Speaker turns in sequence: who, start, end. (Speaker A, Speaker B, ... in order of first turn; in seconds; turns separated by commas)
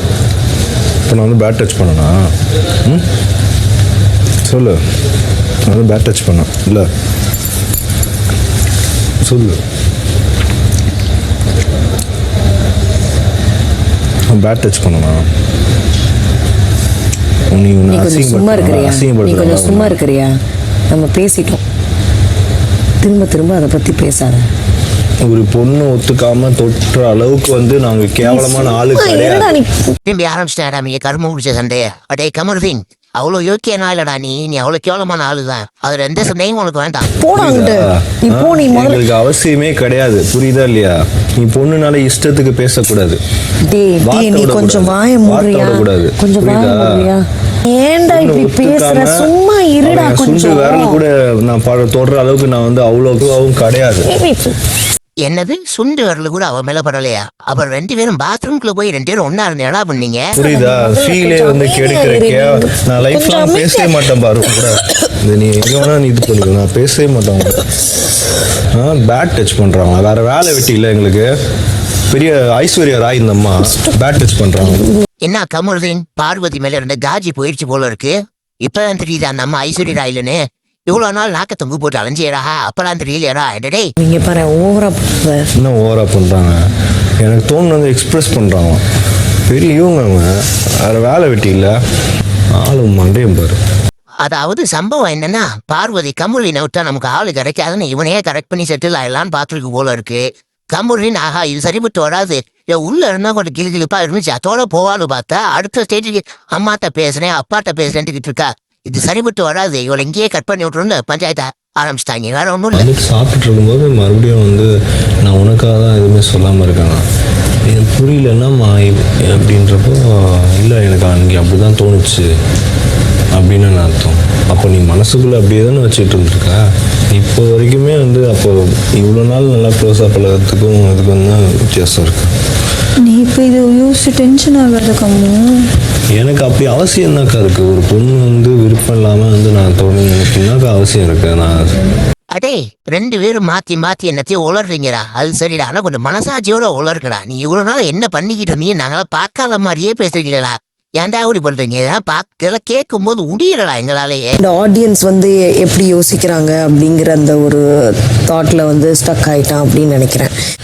Speaker A: 1.1-2.1, Speaker A: 4.4-4.8, Speaker A: 5.7-6.9, Speaker A: 9.2-9.6, Speaker A: 14.3-15.2, Speaker A: 17.5-20.0, Speaker B: 17.8-20.4, Speaker B: 20.9-21.6, Speaker B: 23.0-24.5, Speaker A: 25.2-29.5, Speaker B: 28.2-29.9, Speaker C: 30.0-37.0, Speaker B: 37.2-39.0, Speaker A: 37.3-43.2, Speaker B: 43.7-51.0, Speaker A: 44.0-47.1, Speaker A: 48.1-54.1, Speaker B: 54.0-54.5, Speaker C: 55.2-60.3, Speaker A: 60.3-67.6, Speaker B: 60.4-64.7, Speaker A: 68.7-71.3, Speaker A: 72.1-74.8, Speaker B: 74.6-74.9, Speaker C: 75.2-83.9, Speaker B: 84.0-85.5, Speaker A: 85.6-86.6, Speaker A: 87.2-88.8, Speaker A: 89.5-90.3, Speaker A: 90.8-91.8, Speaker A: 92.6-93.6, Speaker C: 94.2-112.9, Speaker A: 112.7-114.7, Speaker A: 115.2-117.0, Speaker A: 117.7-122.3, Speaker A: 123.3-126.6, Speaker A: 127.1-132.3, Speaker D: 133.0-135.7, Speaker A: 136.1-141.8, Speaker C: 142.3-154.3, Speaker B: 154.4-160.3